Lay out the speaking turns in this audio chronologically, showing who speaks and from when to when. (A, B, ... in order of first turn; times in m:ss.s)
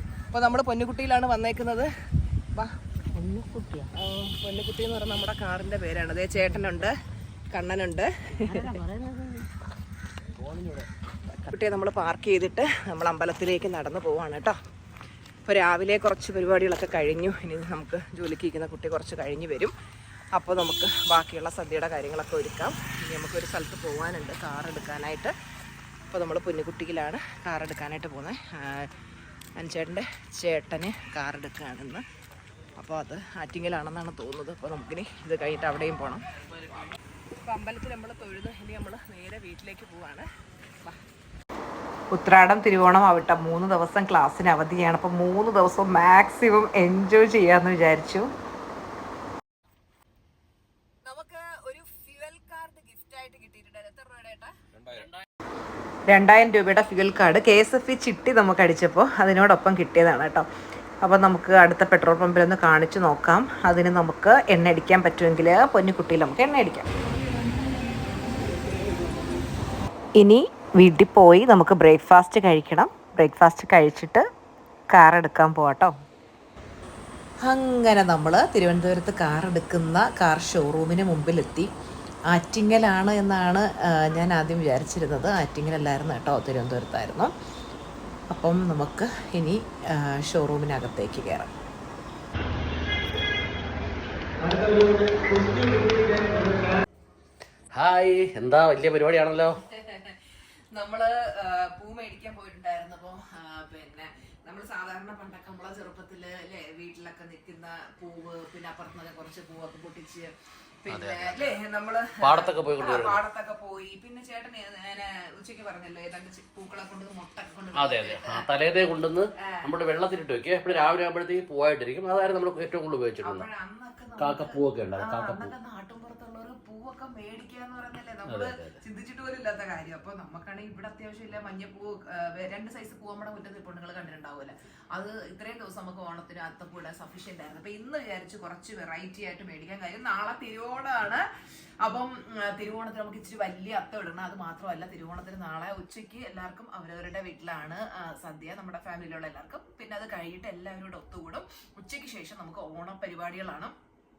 0:00.3-0:01.9 A
0:03.1-0:03.9 B
0:03.9-0:07.0 A
0:07.5-0:08.8 A
0:08.4-0:09.5 B
0:10.4-0:10.8 B
0:11.4-0:14.6 A
0:15.4-0:19.7 A
0:20.3-0:25.3 A
0:26.1-0:28.9 A
0:29.6-0:32.0 A
0:32.8-0:36.2 A
0:37.4-0:40.2 A
0:42.1-0:48.3 A
0:51.0-0:54.5 A
0:54.8-0:55.2 C
0:56.1-1:00.5 A
1:01.0-1:06.9 A
1:10.2-1:14.2 A
1:14.9-1:15.9 A
1:17.4-1:21.7 A
1:22.3-1:27.3 A
1:28.3-1:31.5 A
1:37.7-1:39.6 C
1:39.6-1:40.2 A
1:40.7-1:58.5 A
1:50.9-1:51.5 C
1:52.2-1:53.2 C
1:57.7-2:03.5 C
1:59.4-1:59.7 A
2:03.2-2:21.2 A
2:04.2-2:05.5 C
2:08.3-2:08.8 C
2:21.8-2:33.7 A